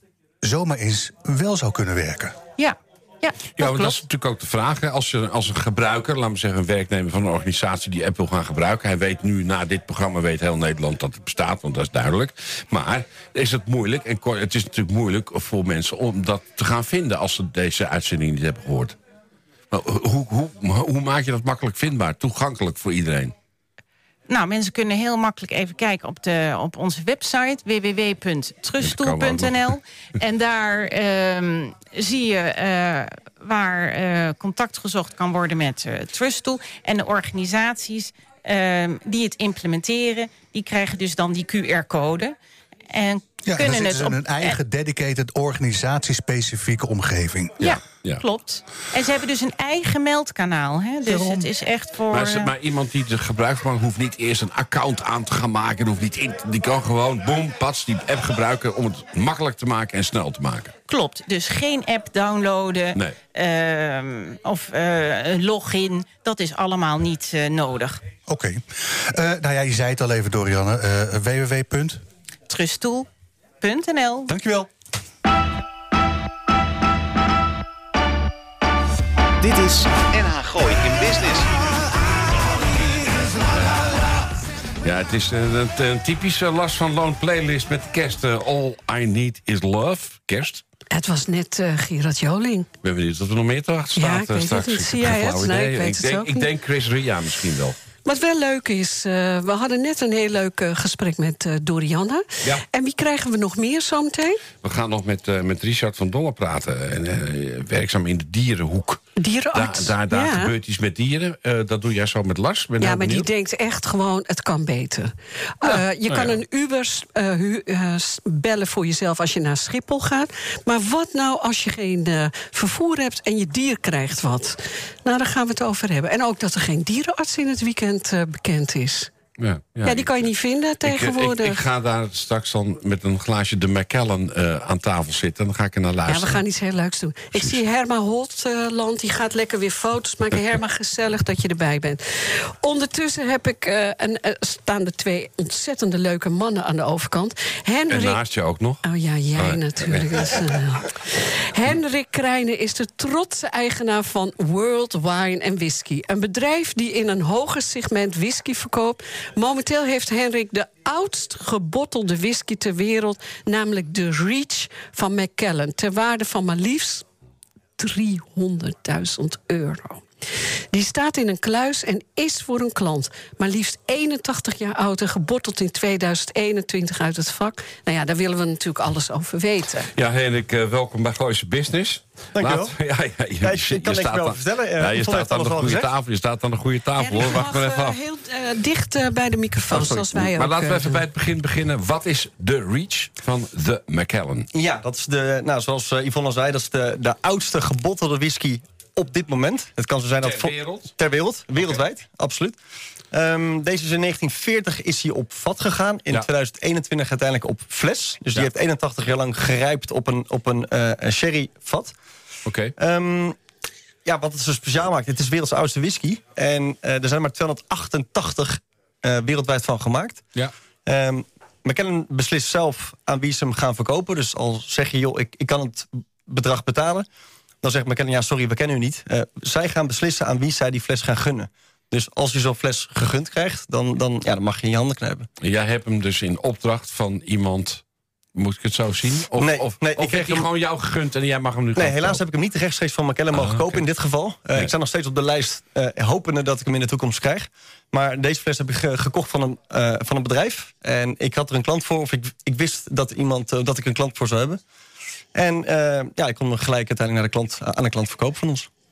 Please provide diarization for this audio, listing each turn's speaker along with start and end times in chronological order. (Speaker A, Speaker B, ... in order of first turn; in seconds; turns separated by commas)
Speaker A: 0.4-2.4, Speaker B: 2.6-4.0, Speaker C: 3.6-18.9, Speaker C: 19.7-23.3, Speaker B: 24.3-42.4, Speaker C: 28.8-29.6, Speaker B: 42.9-44.6, Speaker A: 43.5-47.7, Speaker B: 47.6-52.5, Speaker C: 47.6-48.2, Speaker A: 51.1-51.5, Speaker C: 52.1-60.7, Speaker B: 60.9-68.0, Speaker A: 68.3-72.0, Speaker B: 72.5-73.1, Speaker B: 73.6-74.3, Speaker A: 74.3-74.7, Speaker D: 79.4-81.6, Speaker C: 84.8-90.6, Speaker E: 90.9-92.7, Speaker C: 92.8-97.8, Speaker E: 94.0-96.5, Speaker E: 98.0-104.4, Speaker C: 104.6-113.3, Speaker E: 109.2-110.5, Speaker E: 112.8-129.1, Speaker C: 115.6-116.4, Speaker C: 129.4-130.2, Speaker E: 129.8-131.6, Speaker C: 130.8-136.4, Speaker E: 136.1-148.2, Speaker C: 147.9-150.4, Speaker E: 148.8-167.1, Speaker E: 167.8-170.1, Speaker E: 170.7-179.9, Speaker C: 179.9-188.0, Speaker F: 182.3-182.8, Speaker F: 183.4-185.9, Speaker E: 187.0-191.0, Speaker C: 189.7-194.5, Speaker F: 194.5-202.6, Speaker C: 200.2-200.9, Speaker C: 201.6-201.8, Speaker F: 203.1-211.9, Speaker C: 212.5-212.8, Speaker F: 212.8-213.4, Speaker F: 214.1-220.2, Speaker F: 220.9-227.1, Speaker F: 227.6-235.3, Speaker C: 235.4-237.8, Speaker C: 238.3-242.2, Speaker F: 239.4-240.5, Speaker F: 241.8-254.6, Speaker C: 243.3-243.8, Speaker F: 255.3-258.7